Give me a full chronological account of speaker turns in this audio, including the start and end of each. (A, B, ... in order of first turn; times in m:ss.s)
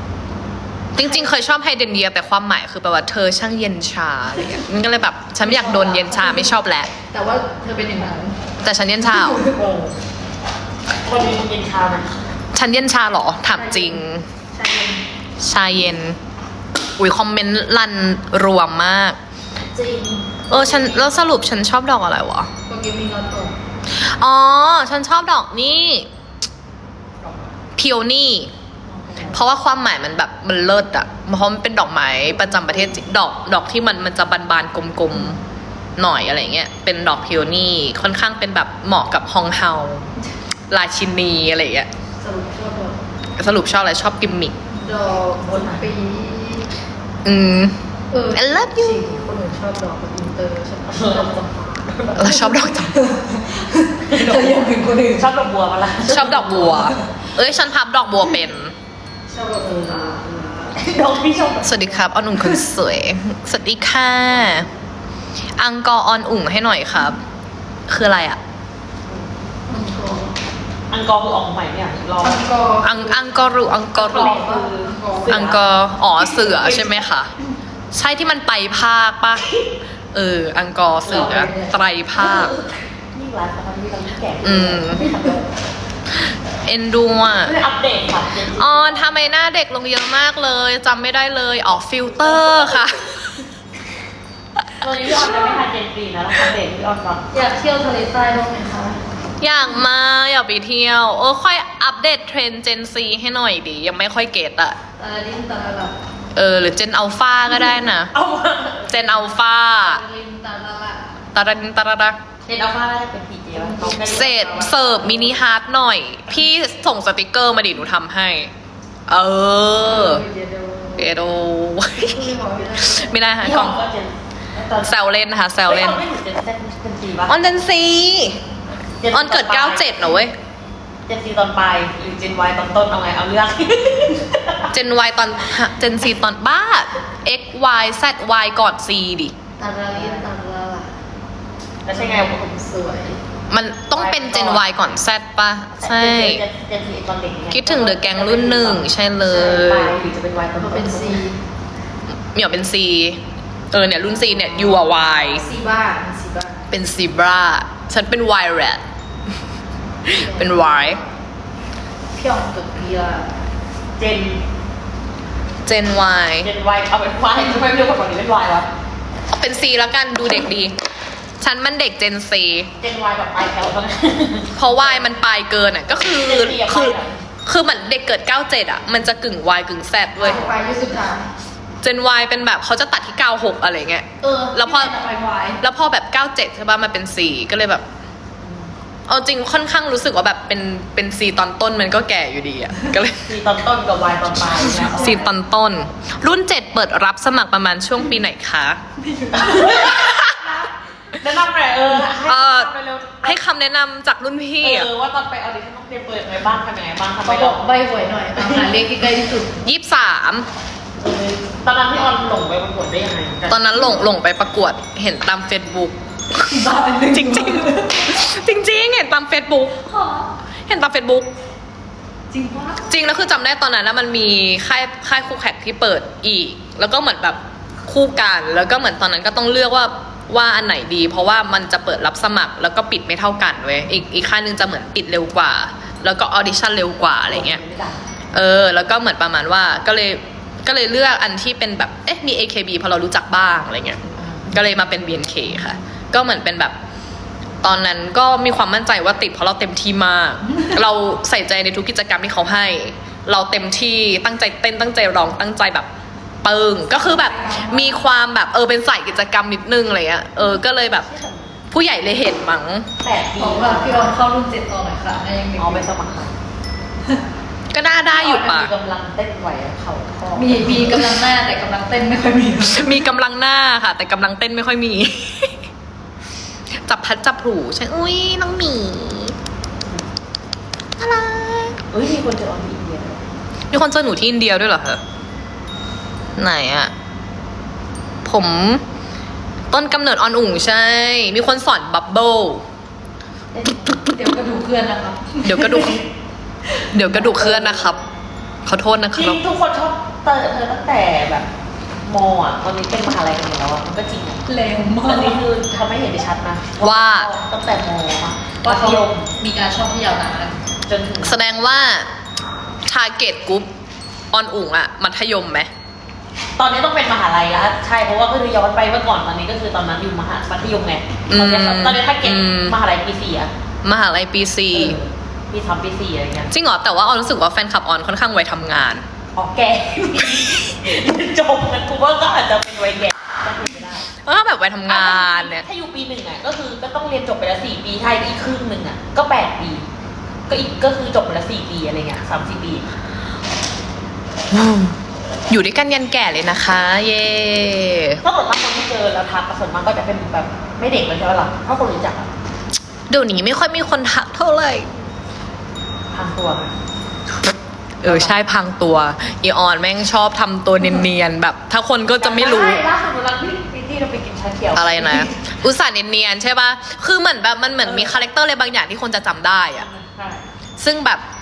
0:00.9-0:06.9 A
0:01.0-0:01.3 B
0:05.4-0:06.6 B
0:07.1-0:08.4 B
0:08.6-0:09.4 A
0:09.1-0:09.7 B
0:09.6-0:09.9 C
0:11.0-0:12.2 C
0:12.5-0:14.2 A
0:13.6-0:15.0 B
0:15.4-0:16.2 A
0:17.0-0:19.2 A
0:19.7-0:21.0 B
0:20.5-0:22.5 A
0:22.7-0:23.5 B
0:23.9-0:26.1 A
0:27.2-0:27.5 C
0:27.8-0:28.5 A
0:28.9-0:29.4 C
0:29.3-0:35.4 A
0:32.5-0:32.8 B
0:36.0-0:40.1 A
0:40.7-0:41.9 A
0:42.2-0:43.0 B
0:43.4-0:44.6 A
0:44.7-0:46.7 B
0:45.3-0:45.9 C
0:47.2-0:47.8 A
0:48.1-0:55.3 B
0:48.3-0:49.2 A
0:50.9-0:52.3 C
0:52.2-0:53.0 A
0:54.0-0:56.8 C
0:56.0-0:58.7 A
0:56.1-0:57.1 B
0:59.3-1:01.0 B
0:59.6-1:02.0 C
1:01.6-1:04.7 A
1:05.6-1:07.2 A
1:07.9-1:08.4 A
1:09.7-1:10.4 B
1:10.9-1:12.4 C
1:12.2-1:13.4 B
1:12.8-1:14.4 A
1:13.9-1:15.4 B
1:14.0-1:15.6 C
1:15.3-1:17.3 A
1:16.2-1:17.1 C
1:17.9-1:19.5 A
1:20.1-1:22.6 A
1:21.0-1:21.5 C
1:21.0-1:21.7 B
1:22.2-1:25.5 C
1:24.4-1:25.0 A
1:25.0-1:25.4 B
1:26.6-1:27.5 A
1:27.4-1:29.2 C
1:28.5-1:33.4 A
1:32.2-1:32.7 C
1:34.8-1:37.3 C
1:37.3-1:39.0 B
1:39.4-1:44.8 A
1:45.0-1:46.0 B
1:46.3-1:48.1 A
1:48.1-1:49.2 C
1:48.9-1:50.0 A
1:49.8-1:51.2 B
1:51.3-1:52.2 A
1:52.4-1:55.4 C
1:53.6-1:54.7 B
1:54.0-1:58.5 A
1:59.1-2:00.2 A
1:59.8-2:01.1 B
2:01.0-2:03.8 A
2:02.0-2:03.2 B
2:03.4-2:05.0 C
2:04.8-2:06.0 A
2:05.6-2:07.4 C
2:07.3-2:08.4 A
2:09.0-2:10.1 C
2:09.1-2:10.4 A
2:11.1-2:14.7 C
2:14.7-2:19.3 A
2:19.6-2:20.9 B
2:19.9-2:20.3 C
2:21.8-2:22.5 C
2:21.9-2:23.2 B
2:23.5-2:26.4 A
2:23.9-2:24.7 C
2:25.8-2:31.2 C
2:27.5-2:30.0 A
2:30.6-2:31.4 B
2:32.3-2:35.4 A
2:34.3-2:35.4 C
2:35.3-2:36.7 B
2:36.7-2:38.8 A
2:40.1-2:41.0 A
2:40.1-2:41.1 B
2:42.1-2:43.3 B
2:44.0-2:44.4 C
2:45.6-2:46.5 A
2:46.4-2:48.7 C
2:49.3-2:50.7 A
2:51.4-2:52.7 A
2:52.8-2:55.1 C
2:54.6-3:00.5 A
2:56.0-2:57.2 C
3:00.2-3:01.3 B
3:00.2-3:00.5 C
3:01.8-3:04.9 A
3:04.2-3:05.6 B
3:05.6-3:07.8 A
3:08.4-3:08.7 C
3:09.1-3:13.3 A
3:13.2-3:15.3 C
3:14.8-3:18.8 A
3:14.8-3:15.1 B
3:19.1-3:19.6 B
3:19.3-3:23.4 C
3:19.5-3:20.4 A
3:22.2-3:22.7 A
3:23.2-3:24.9 A
3:24.6-3:27.8 C
3:27.2-3:29.6 B
3:28.4-3:28.7 C
3:29.6-3:30.5 A
3:31.0-3:33.8 C
3:33.5-3:39.8 A
3:36.4-3:38.1 B
3:39.8-3:40.3 B
3:40.7-3:41.3 A
3:42.3-3:42.9 B
3:42.8-3:57.6 A
3:57.3-3:58.0 C
3:58.3-4:06.8 A
4:04.2-4:05.7 C
4:07.6-4:15.9 A
4:16.4-4:21.1 A
4:16.9-4:18.0 B
4:20.9-4:21.6 C
4:21.7-4:22.9 A
4:23.0-4:24.1 C
4:23.4-4:25.9 B
4:25.6-4:26.4 C
4:27.7-4:28.7 A
4:28.1-4:31.2 C
4:30.4-4:33.0 B
4:32.6-4:35.6 A
4:36.8-4:39.3 A
4:41.0-4:41.8 A
4:41.9-4:43.2 C
4:43.7-4:45.0 A
4:46.4-4:46.9 A
4:48.2-4:48.8 A
4:49.7-4:52.6 A
4:53.5-4:54.0 C
4:53.9-4:56.0 B
4:55.4-4:56.0 A
4:56.9-4:58.0 A
4:57.1-4:57.9 C
4:58.6-4:59.4 A
4:59.1-5:01.5 C
5:02.0-5:04.4 C
5:04.5-5:05.4 B
5:05.0-5:09.3 C
5:06.8-5:07.3 A
5:08.6-5:10.6 B
5:10.9-5:11.6 C
5:11.2-5:12.1 A
5:12.8-5:13.7 A
5:14.3-5:15.7 A
5:16.6-5:23.5 C
5:21.3-5:22.8 A
5:23.8-5:25.0 A
5:24.7-5:26.5 C
5:26.5-5:29.0 A
5:29.4-5:34.1 C
5:34.2-5:35.6 A
5:34.9-5:39.8 C
5:40.5-5:42.9 C
5:44.5-5:45.0 A
5:45.5-5:48.2 A
5:48.2-5:52.3 C
5:53.1-5:54.9 A
5:56.1-5:56.7 C
5:58.0-6:02.9 A
5:58.0-5:58.4 C
6:02.1-6:05.4 C
6:04.7-6:09.9 A
6:07.8-6:08.2 C
6:09.7-6:10.4 C
6:10.8-6:11.2 A